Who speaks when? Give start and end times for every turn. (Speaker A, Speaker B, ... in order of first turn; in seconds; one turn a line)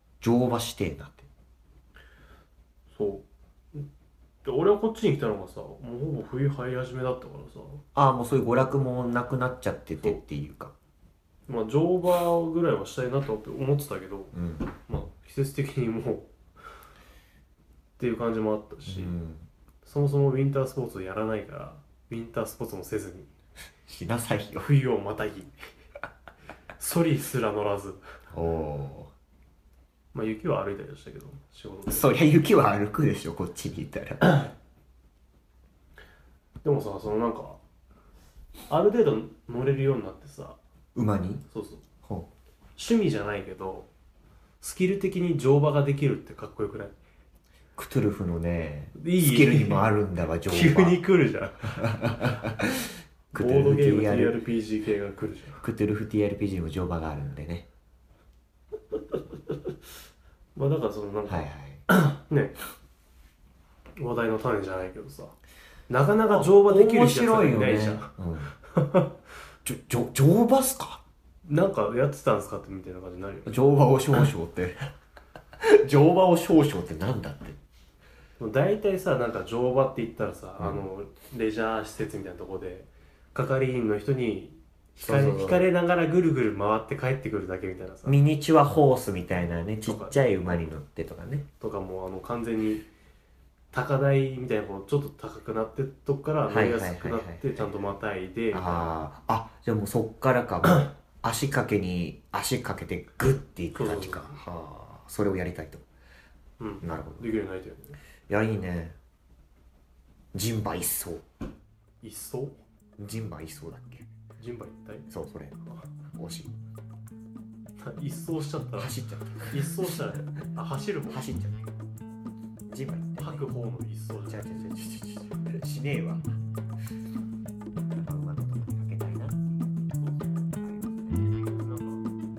Speaker A: 0.2-1.3
Speaker B: 2.9-3.9
Speaker B: 4.4-7.8
Speaker A: 8.0-10.7
Speaker B: 11.5-14.4
Speaker A: 14.3-14.7
Speaker B: 14.9-16.3
Speaker B: 18.0-19.1
Speaker A: 18.9-19.5
Speaker B: 19.8-23.3
Speaker A: 23.9-24.7
Speaker B: 24.6-25.6
Speaker B: 26.8-28.0
Speaker A: 28.3-29.1
Speaker B: 30.1-32.1
Speaker A: 31.9-34.5
Speaker B: 36.6-37.6
Speaker B: 38.7-40.6
Speaker A: 41.0-41.5
Speaker B: 41.5-41.8
Speaker A: 42.0-42.3
Speaker B: 42.8-43.9
Speaker B: 44.6-47.0
Speaker A: 47.8-51.0
Speaker B: 49.0-49.9
Speaker B: 50.5-52.4
Speaker A: 51.8-54.4
Speaker B: 53.4-55.6
Speaker A: 55.6-57.7
Speaker B: 60.5-62.6
Speaker A: 61.3-61.9
Speaker B: 64.0-65.4
Speaker B: 65.9-69.1
Speaker A: 66.3-68.5
Speaker A: 69.7-71.0
Speaker B: 71.5-73.6
Speaker A: 73.5-74.9
Speaker A: 75.6-77.6
Speaker B: 78.4-88.2
Speaker A: 80.6-80.8
Speaker A: 85.0-85.7
Speaker A: 88.1-91.5
Speaker B: 89.8-90.7
Speaker B: 91.6-92.9
Speaker B: 93.7-98.9
Speaker A: 96.5-97.7
Speaker A: 98.5-105.8
Speaker B: 103.8-104.4
Speaker B: 106.6-108.0
Speaker A: 106.8-107.3
Speaker A: 108.3-109.0
Speaker A: 110.3-111.2
Speaker B: 112.0-112.6
Speaker A: 113.0-114.1
Speaker B: 114.4-115.1
Speaker A: 115.1-116.5
Speaker B: 117.8-118.9
Speaker A: 118.7-120.0
Speaker B: 119.5-121.3
Speaker A: 121.1-121.6
Speaker A: 122.7-123.5
Speaker B: 123.2-124.7
Speaker A: 124.3-126.3
Speaker A: 127.9-129.8
Speaker B: 129.9-130.4
Speaker A: 130.6-131.4
Speaker B: 131.4-132.1